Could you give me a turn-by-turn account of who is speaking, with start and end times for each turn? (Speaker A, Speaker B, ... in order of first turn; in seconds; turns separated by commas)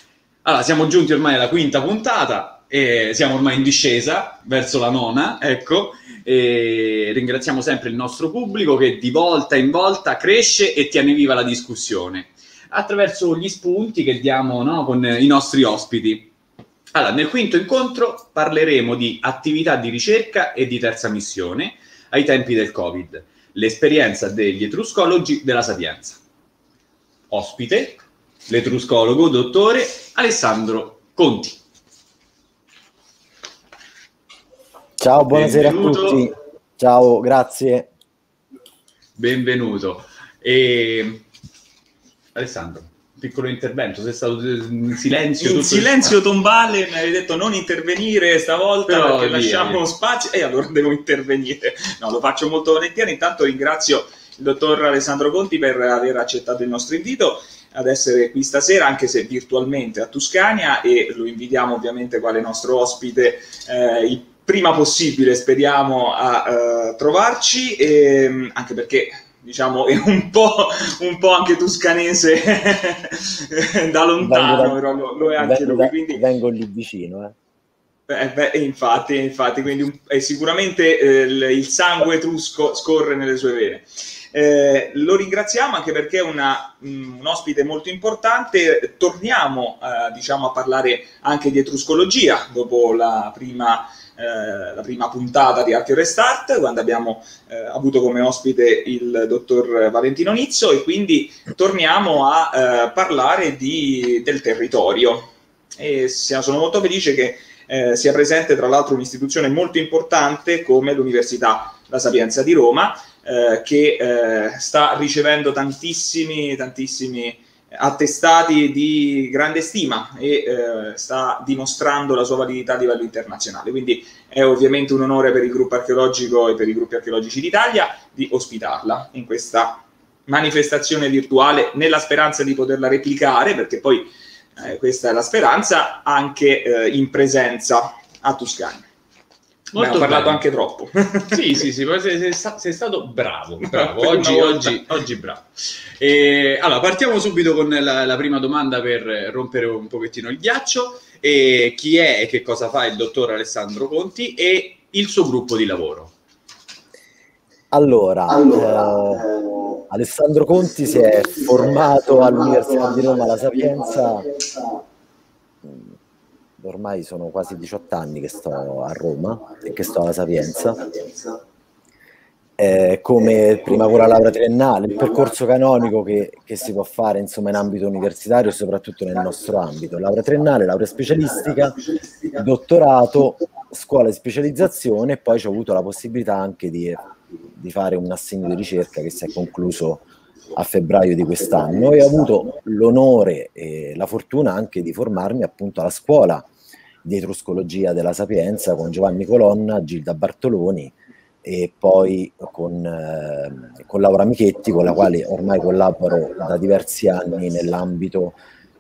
Speaker A: 0.4-16.3, Speaker A: 16.9-26.2, Speaker A: 27.3-31.6, Speaker B: 35.0-37.9, Speaker A: 35.3-36.2, Speaker A: 39.2-41.3, Speaker A: 42.4-46.1, Speaker C: 45.4-76.2, Speaker A: 48.9-49.8, Speaker B: 74.2-74.8, Speaker B: 75.4-77.4, Speaker C: 78.1-138.9, Speaker A: 139.7-140.4, Speaker C: 139.8-141.4, Speaker A: 141.3-145.5, Speaker C: 143.6-144.9, Speaker A: 146.0-156.1, Speaker B: 157.7-164.3, Speaker B: 165.6-165.9, Speaker B: 166.6-171.4, Speaker B: 172.6-196.5, Speaker B: 197.0-208.4